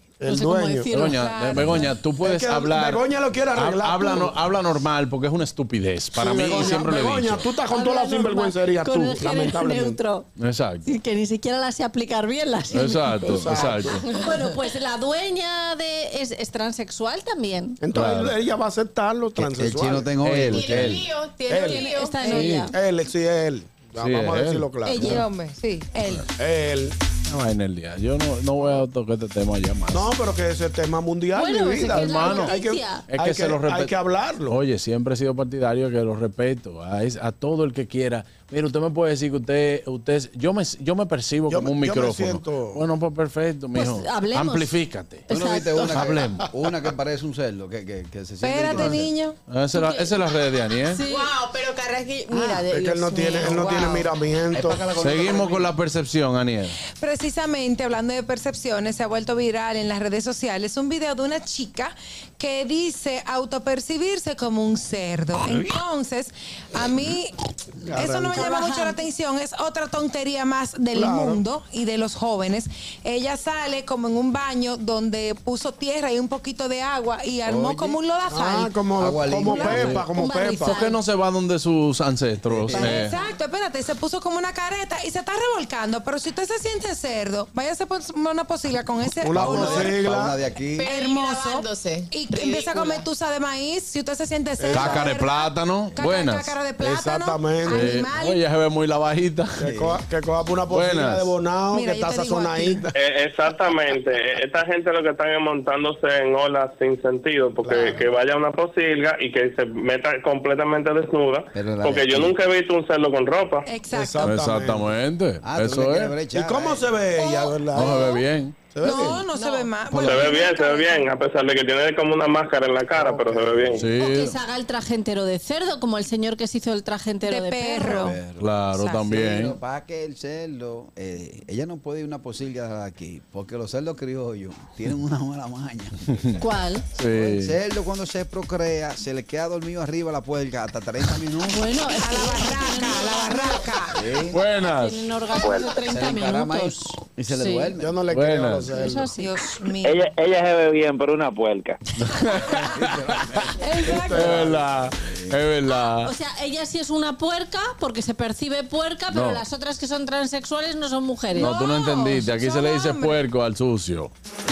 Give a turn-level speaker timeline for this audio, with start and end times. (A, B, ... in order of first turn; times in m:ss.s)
0:00.2-0:00.9 A
0:00.2-0:01.8 B
0:00.9-0:07.5 C
0:01.1-0:01.9 D
0:02.2-0:04.4 A
0:06.1-0:10.0 A
0:07.6-0:10.3 B
0:10.4-0:10.9 C
0:10.8-0:17.8 B
0:12.7-0:14.1 C
0:13.3-0:14.0 A
0:17.8-0:20.2 A
0:17.9-0:18.3 C
0:19.4-0:21.0 E
0:20.2-0:21.0 C
0:20.5-0:22.6 F
0:21.5-0:21.9 A
0:21.6-0:22.7 B
0:22.3-0:22.7 C
0:22.7-0:25.2 A
0:24.0-0:25.2 C
0:24.8-0:26.3 D
0:26.4-0:26.9 A
0:27.2-0:30.1 C
0:29.9-0:34.6 A
0:31.3-0:33.0 B
0:31.9-0:33.9 C
0:34.5-0:45.3 C
0:41.5-0:42.8 A
0:43.7-0:44.7 B
0:45.3-0:46.1 B
0:45.3-0:49.1 E
0:45.9-0:46.5 C
0:48.4-0:49.4 D
0:49.5-0:51.0 C
0:49.7-0:50.2 B
0:50.8-0:51.3 B
0:51.0-0:54.1 F
0:52.6-0:55.0 A
0:54.5-0:55.7 E
0:54.9-0:56.8 C
0:57.0-1:07.4 D
1:07.8-1:08.5 A
1:07.9-1:18.7 D
1:08.4-1:09.0 B
1:10.9-1:11.4 A
1:17.4-1:18.0 E
1:18.3-1:20.9 A
1:19.0-1:20.0 E
1:19.5-1:20.8 D
1:19.6-1:20.0 C
1:20.6-1:23.1 C
1:22.5-1:23.1 E
1:22.7-1:29.9 D
1:29.2-1:30.4 A
1:29.4-1:30.9 E
1:30.8-1:33.0 F
1:30.8-1:38.4 D
1:34.6-1:35.2 A
1:34.7-1:36.7 C
1:36.7-1:38.1 A
1:37.7-1:39.6 C
1:39.6-1:42.9 A
1:39.6-1:40.0 E
1:40.7-1:41.3 C
1:41.7-1:42.9 D
1:42.9-1:53.7 G
1:47.6-1:48.0 A
1:51.5-1:52.4 E
1:53.6-1:54.3 D
1:53.9-1:55.0 A
1:54.2-1:56.2 C
1:55.4-1:57.0 E
1:56.3-1:59.3 A
1:57.2-1:57.5 D
1:57.7-1:58.6 C
1:58.8-2:01.0 D
1:59.3-1:59.7 F
1:59.9-2:00.3 E
1:59.9-2:03.9 G
2:02.9-2:03.9 A
2:03.7-2:04.3 C
2:03.9-2:08.1 B
2:07.3-2:08.2 D
2:07.8-2:16.2 E
2:08.4-2:09.6 C
2:08.7-2:09.1 D
2:16.4-2:16.8 B
2:17.0-2:17.5 C
2:17.0-2:21.7 E
2:21.5-2:23.6 B
2:22.0-2:24.0 D
2:23.9-2:24.4 E
2:24.3-2:25.0 C
2:24.5-2:27.7 B
2:25.6-2:28.0 E
2:27.8-2:29.1 A
2:28.1-2:28.7 C
2:28.7-2:29.3 B
2:29.1-2:30.1 D
2:29.8-2:31.8 H
2:32.0-2:33.4 C
2:32.5-2:33.5 E
2:33.6-2:34.3 D
2:33.8-2:34.8 A
2:34.1-2:36.1 C
2:34.1-2:34.4 E
2:35.0-2:35.4 E
2:36.0-2:41.6 B
2:39.1-2:39.4 C
2:41.3-2:43.2 D
2:41.3-2:44.1 C